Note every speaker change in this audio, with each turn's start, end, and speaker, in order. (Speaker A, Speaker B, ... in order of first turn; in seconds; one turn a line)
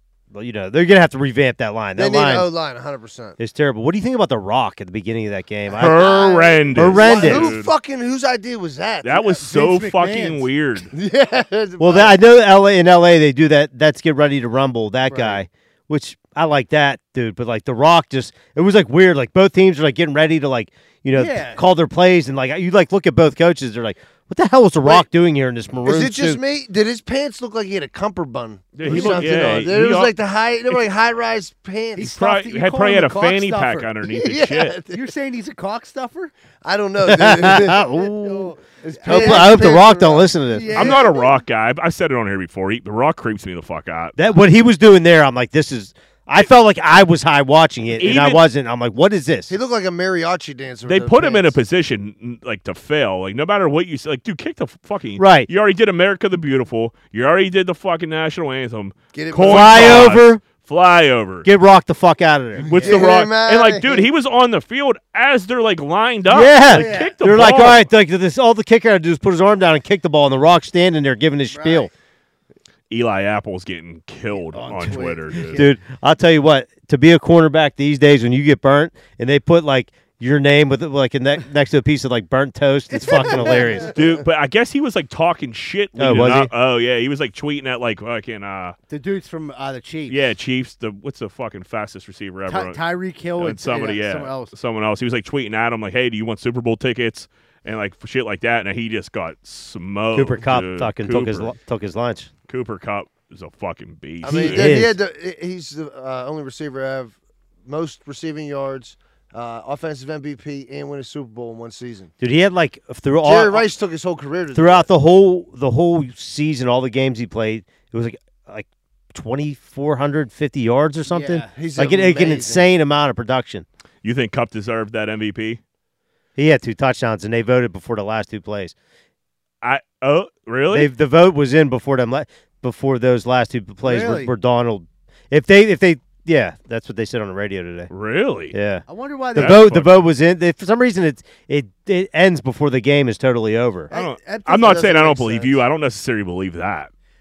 Speaker A: 0.3-2.5
Speaker B: 1.9-3.4
Speaker A: 3.4-6.2
Speaker C: 5.7-7.3
Speaker D: 5.8-7.7
Speaker A: 6.7-7.5
Speaker B: 6.8-9.1
Speaker D: 9.0-10.9
Speaker C: 9.1-10.5
Speaker B: 10.9-12.2
Speaker A: 11.8-26.4
Speaker C: 15.1-15.4
Speaker C: 21.1-21.6
Speaker B: 25.8-32.1
Speaker D: 28.7-30.1
Speaker A: 28.9-29.2
Speaker C: 28.9-29.2
Speaker C: 31.9-33.9
Speaker D: 32.1-34.8
Speaker B: 34.0-35.0
Speaker C: 34.9-36.3
Speaker B: 36.6-37.9
Speaker A: 37.0-40.9
Speaker C: 37.6-39.8
Speaker B: 39.0-40.3
Speaker C: 40.5-41.3
Speaker D: 40.7-44.1
Speaker A: 44.1-49.5
Speaker D: 48.0-48.4
Speaker B: 49.5-51.6
Speaker D: 50.8-61.5
Speaker A: 55.2-55.5
Speaker B: 59.1-60.1
Speaker A: 59.4-60.4
Speaker A: 61.4-62.7
Speaker C: 62.6-63.0
Speaker D: 62.7-67.8
Speaker B: 62.8-64.1
Speaker A: 66.2-71.9
Speaker C: 66.7-67.1
Speaker C: 71.5-71.9
Speaker D: 72.9-75.6
Speaker C: 74.3-75.7
Speaker A: 75.5-83.9
Speaker C: 82.9-83.9
Speaker D: 83.9-88.8
Speaker A: 86.0-86.5
Speaker C: 88.9-90.3
Speaker D: 90.1-92.8
Speaker C: 92.5-94.5
Speaker D: 93.4-101.5
Speaker A: 100.1-102.3
Speaker D: 102.5-104.8
Speaker B: 104.2-107.1
Speaker A: 104.3-105.0
Speaker B: 107.7-112.1
Speaker A: 112.2-113.7
Speaker B: 113.2-114.8
Speaker A: 114.5-123.6
Speaker C: 121.0-121.5
Speaker B: 121.5-122.7
Speaker D: 124.0-125.6
Speaker A: 126.3-128.7
Speaker D: 129.6-130.9
Speaker A: 130.7-137.9
Speaker C: 133.8-134.3
Speaker D: 137.9-138.5
Speaker A: 138.5-138.8
Speaker C: 138.9-139.7
Speaker D: 139.3-139.9
Speaker A: 139.3-143.9
Speaker C: 143.9-145.6
Speaker D: 143.9-146.9